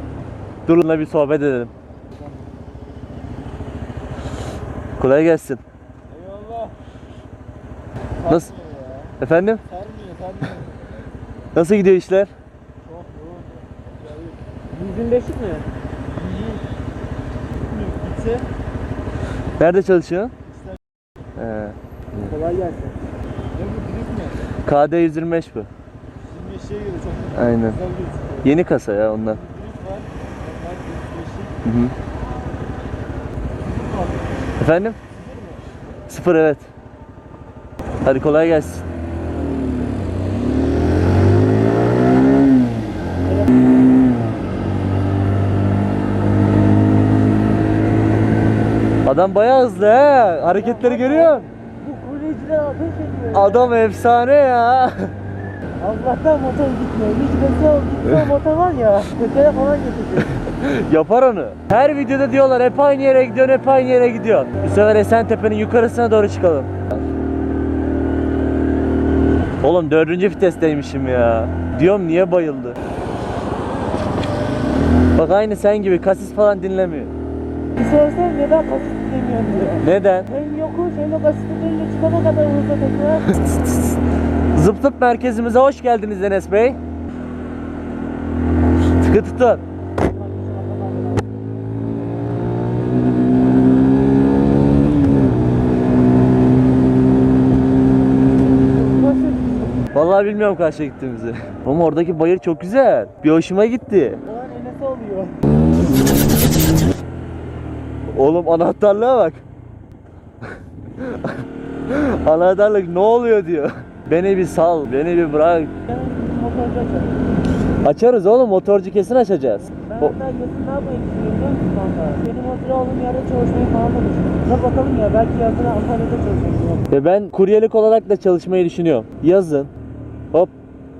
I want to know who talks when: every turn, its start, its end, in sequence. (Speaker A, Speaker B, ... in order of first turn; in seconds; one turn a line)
Speaker A: 0.7-1.7
Speaker A: 5.0-5.6
Speaker B: 6.1-6.7
Speaker A: 8.2-8.5
Speaker B: 8.6-9.0
Speaker A: 9.2-9.6
Speaker B: 9.8-10.4
Speaker A: 11.5-12.3
Speaker B: 12.9-13.4
Speaker B: 14.7-15.7
Speaker B: 16.2-16.6
Speaker B: 17.7-18.4
Speaker A: 19.6-20.3
Speaker A: 21.4-22.3
Speaker B: 22.2-23.0
Speaker B: 23.6-24.4
Speaker A: 24.6-25.7
Speaker B: 26.3-28.4
Speaker A: 27.3-27.8
Speaker A: 28.4-29.4
Speaker B: 29.4-31.5
Speaker A: 31.6-31.9
Speaker A: 34.6-35.0
Speaker B: 35.3-35.6
Speaker A: 36.1-36.7
Speaker A: 38.0-38.8
Speaker B: 43.2-43.5
Speaker A: 49.0-51.5
Speaker B: 50.5-53.8
Speaker A: 53.3-55.1
Speaker B: 55.8-60.4
Speaker A: 60.3-66.8
Speaker A: 69.6-72.8
Speaker A: 75.2-77.1
Speaker B: 77.7-83.3
Speaker A: 79.8-80.3
Speaker A: 83.3-83.9
Speaker A: 84.5-86.8
Speaker A: 89.0-89.6
Speaker B: 90.0-91.3
Speaker B: 98.7-99.8
Speaker A: 99.9-104.2
Speaker B: 104.2-105.4
Speaker A: 108.1-109.4
Speaker A: 111.0-115.7
Speaker B: 115.9-117.2
Speaker A: 117.8-120.2
Speaker B: 119.8-126.9
Speaker A: 126.9-129.7